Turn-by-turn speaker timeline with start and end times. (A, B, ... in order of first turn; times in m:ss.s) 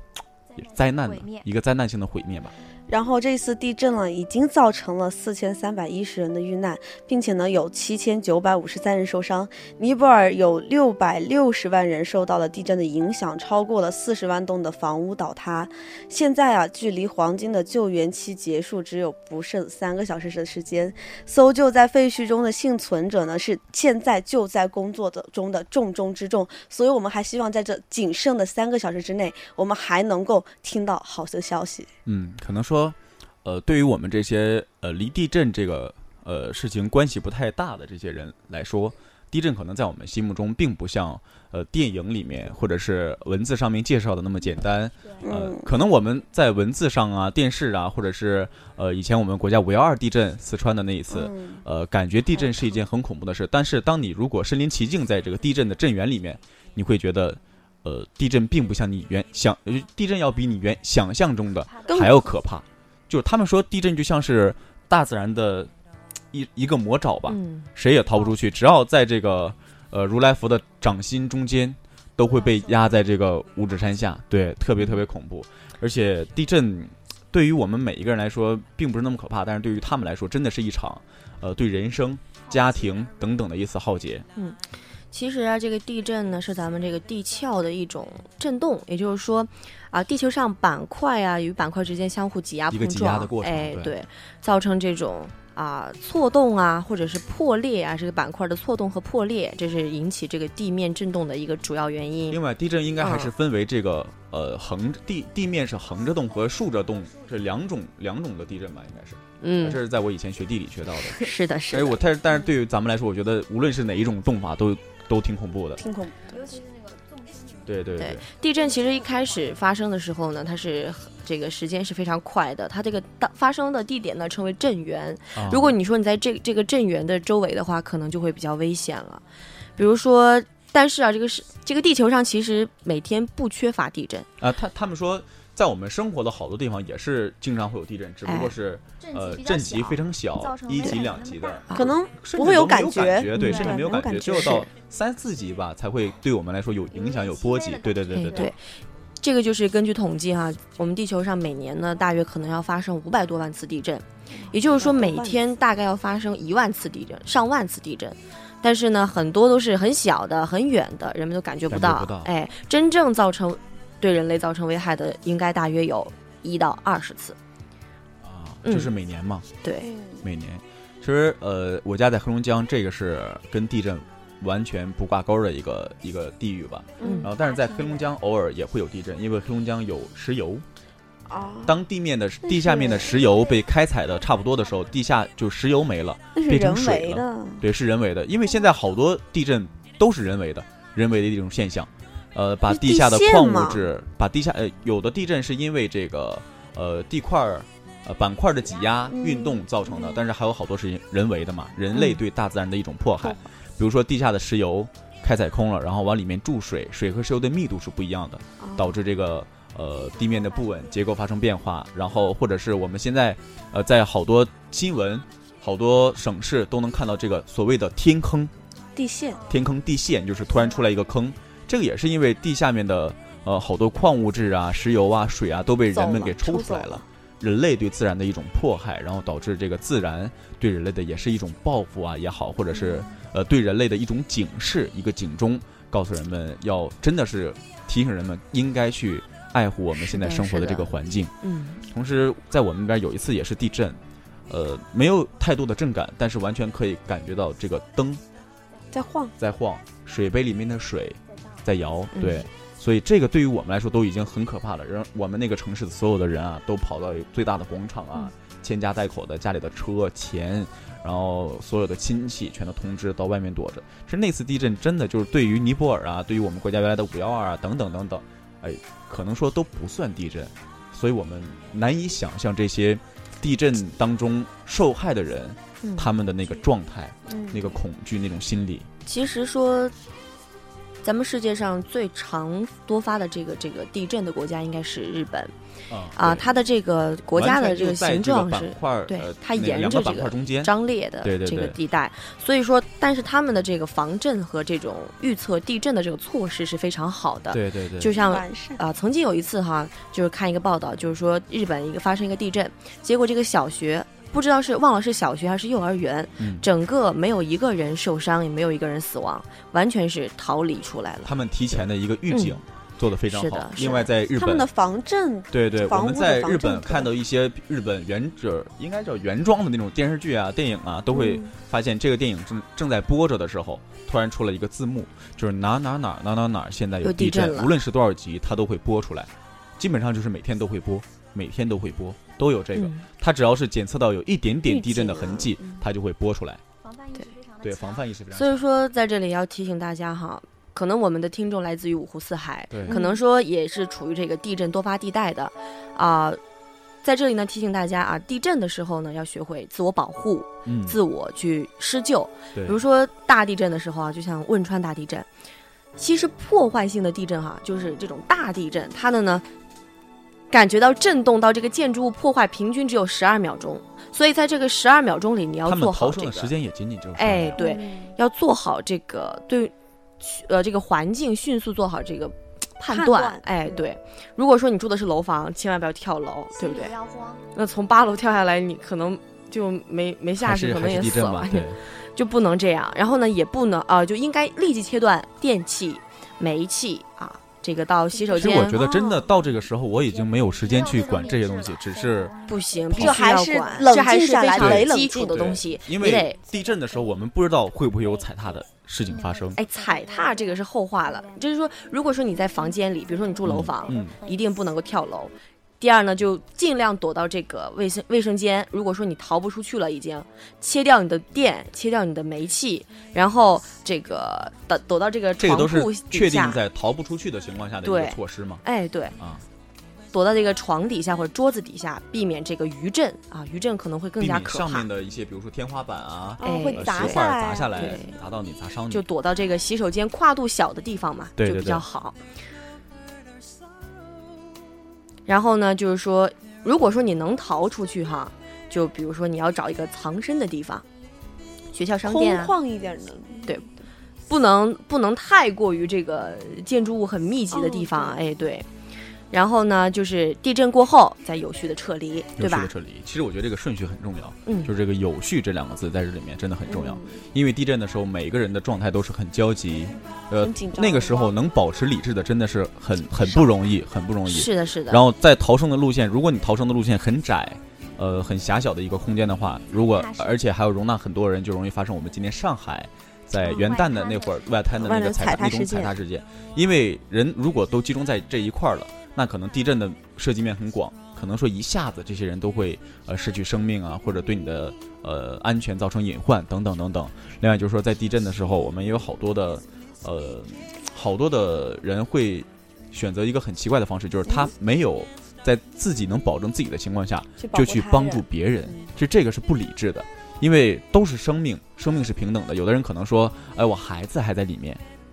0:00.5-0:01.5 A
0:00.6-0:02.5 B
0:02.9-0:31.9 C
0:32.1-1:05.7 B
0:45.2-0:45.7 C
0:51.1-0:51.6 C
1:01.6-1:02.3 A
1:01.9-1:02.2 C
1:06.3-1:24.3 B
1:07.3-1:07.7 D
1:12.3-1:13.0 A
1:24.4-1:24.6 D
1:25.1-1:42.4 D
1:32.7-1:34.0 B
1:42.3-1:55.8 B
1:43.0-1:43.3 D
1:46.5-1:47.1 A
1:49.4-1:49.8 D
1:51.1-1:52.0 D
1:55.8-1:56.6 C
1:56.3-1:59.6 A
1:57.7-1:58.2 B
1:58.0-2:09.2 D
2:05.3-2:05.8 B
2:09.8-2:14.3 D
2:14.4-2:28.5 B
2:18.3-2:18.6 D
2:19.0-2:21.9 A
2:21.8-2:24.7 C
2:23.3-2:23.9 D
2:26.9-2:28.6 A
2:28.1-2:28.6 D
2:29.2-2:47.4 D
2:34.5-2:35.4 C
2:41.7-2:42.3 B
2:48.2-2:49.5 B
2:48.6-2:48.9 D
2:49.6-2:49.9 D
2:49.8-2:50.3 C
2:50.2-3:00.6 B
2:57.0-2:57.3 C
2:57.0-2:57.3 D
2:57.1-2:58.1 A
3:01.3-3:01.8 C
3:01.7-3:38.5 B
3:02.4-3:03.2 C
3:02.9-3:05.1 A
3:06.4-3:07.6 C
3:12.7-3:13.9 C
3:19.1-3:20.2 C
3:23.2-3:23.5 C
3:28.6-3:28.9 C
3:29.9-3:31.2 A
3:39.0-3:39.4 C
3:39.3-3:39.8 A
3:39.5-4:01.3 B
3:40.5-3:41.0 A
3:45.9-3:47.0 C
4:00.0-4:00.9 D
4:01.4-4:01.8 D
4:01.9-4:08.2 B
4:08.9-4:09.3 C
4:09.4-4:38.9 B
4:11.3-4:11.6 A
4:12.1-4:12.5 D
4:35.8-4:36.1 D
4:39.0-4:40.0 D
4:41.0-4:45.5 D
4:45.9-4:46.5 B
4:46.2-5:12.6 D
4:47.3-4:51.8 B
4:57.5-4:58.2 B
4:58.1-4:58.8 C
5:06.4-5:06.7 B
5:11.2-5:14.7 B
5:13.3-5:14.1 D
5:13.8-5:17.1 C
5:15.5-5:36.6 B
5:21.1-5:21.5 D
5:27.0-5:27.8 D
5:32.8-5:33.0 D
5:34.7-5:35.5 D
5:34.9-5:35.2 C
5:36.8-5:38.0 A
5:37.6-5:38.7 B
5:38.3-5:46.4 D
5:42.7-5:43.0 B
5:47.0-5:55.3 D
5:50.6-5:51.0 B
5:52.5-5:52.8 B
5:56.0-5:59.5 D
6:00.5-6:06.5 D
6:05.7-6:07.6 B
6:07.2-6:17.0 D
6:07.6-6:08.2 C
6:12.9-6:13.9 C
6:16.5-6:17.5 A
6:17.5-6:28.8 D
6:20.4-6:21.8 B
6:28.2-6:29.5 A
6:28.4-6:32.3 B
6:28.7-6:29.3 C
6:30.1-6:34.0 A
6:32.5-6:36.4 D
6:32.9-6:35.6 C
6:34.6-6:39.6 B
6:36.0-6:44.9 A
6:39.6-6:56.6 D
6:43.4-6:44.1 B
6:55.4-6:58.6 B
6:57.8-6:59.2 D
6:59.2-6:59.4 B
7:00.1-7:04.9 D
7:04.2-7:09.0 B
7:06.4-7:08.0 C
7:06.4-7:08.2 D
7:08.9-7:12.2 D
7:11.4-7:11.8 B
7:15.3-7:20.9 D
7:21.7-7:22.6 D
7:22.0-7:23.6 C
7:24.3-7:28.7 D
7:27.5-7:28.2 C
7:29.3-7:32.7 D
7:32.4-8:24.8 B
7:36.7-7:37.2 C
7:40.4-7:41.4 C
7:44.3-7:45.0 D
7:49.7-7:50.4 A
7:53.4-7:55.1 A
7:53.4-7:53.7 C
7:54.8-7:56.0 C
8:17.4-8:18.9 C